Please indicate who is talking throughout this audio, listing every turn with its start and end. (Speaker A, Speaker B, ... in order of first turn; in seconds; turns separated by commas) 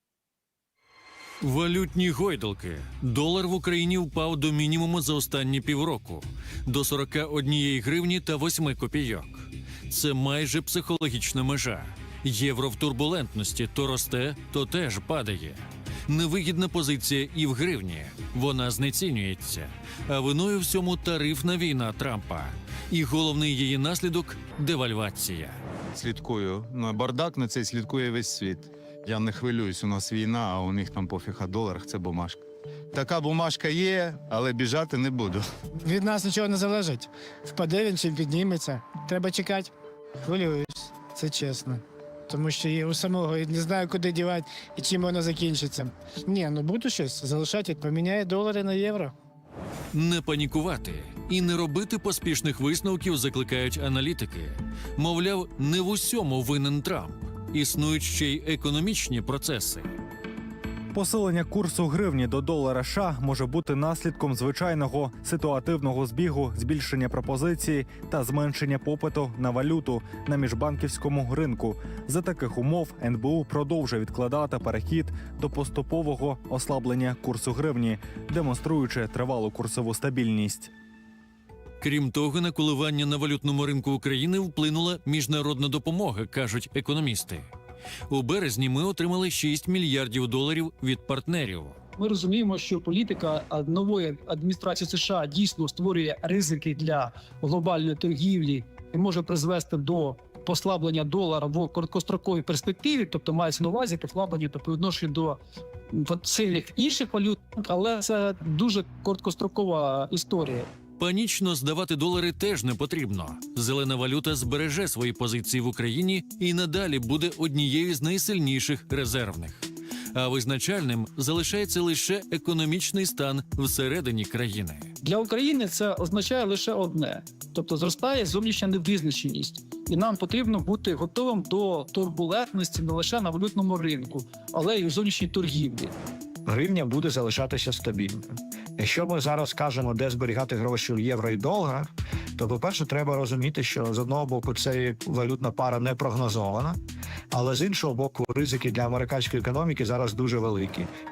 Speaker A: 1.4-25.6, Speaker B: 25.9-32.4, Speaker B: 32.9-35.4, Speaker C: 35.8-39.7, Speaker C: 40.2-49.1, Speaker A: 49.9-59.9, Speaker D: 60.9-80.7, Speaker A: 81.8-87.5, Speaker A: 88.1-91.8, Speaker E: 92.0-105.4, Speaker E: 105.9-110.7, Speaker A: 111.0-124.9, Speaker E: 125.0-135.9, Speaker F: 136.4-146.8, Speaker F: 147.3-150.9